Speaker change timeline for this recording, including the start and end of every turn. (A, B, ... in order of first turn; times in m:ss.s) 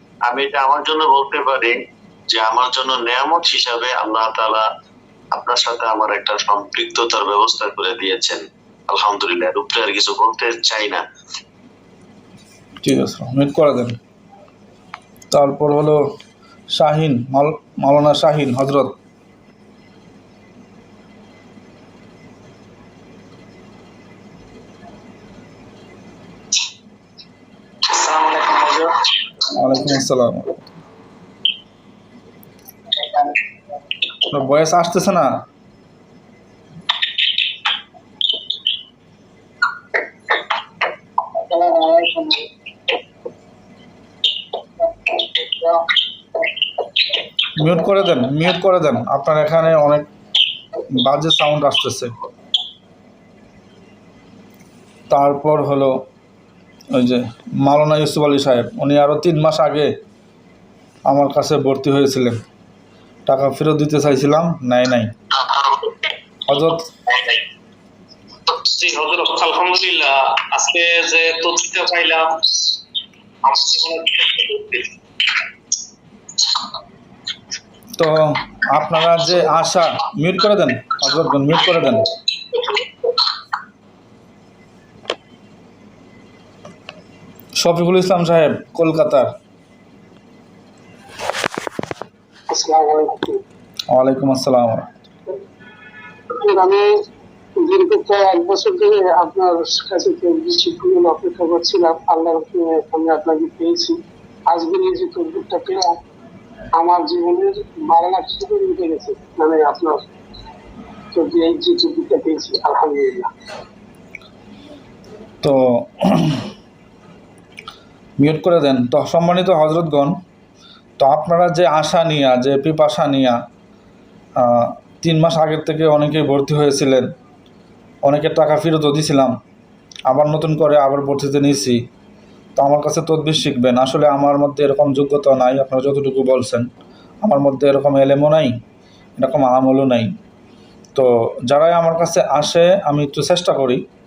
0:00.3-0:01.8 A
0:02.3-0:04.7 A
0:05.3-0:11.0 A
0:12.8-0:14.0 B
0:15.3-0:16.0 B
0:16.8-0:19.0 B
0:27.9-0:28.9 C
0:29.5-0:30.6 B
0:34.3-0:35.3 B
0:41.5-0:42.5 D
0:45.0-0:45.8 D
0:47.6-0:50.1 B
0:51.0-0:52.1 B
0:55.1-0:55.9 B
0:56.9-0:59.9 B
1:01.1-1:02.4 B
1:03.3-1:05.1 B
1:05.5-1:05.8 C
1:06.5-1:06.9 B
1:07.1-1:07.4 C
1:08.5-1:12.4 C
1:13.4-1:14.9 C
1:18.0-1:22.1 B
1:27.6-1:29.3 B
1:32.5-1:33.4 D
1:33.9-1:34.9 B
1:36.4-1:36.9 D
1:37.6-1:46.0 D
1:46.8-1:50.0 D
1:51.1-1:53.3 D
1:55.4-1:56.5 B
1:58.2-2:00.2 B
2:01.0-2:03.4 B
2:04.4-2:07.1 B
2:08.0-2:09.3 B
2:10.1-2:11.8 B
2:12.6-2:16.7 B
2:17.2-2:18.5 B
2:19.2-2:20.1 B
2:21.0-2:23.8 B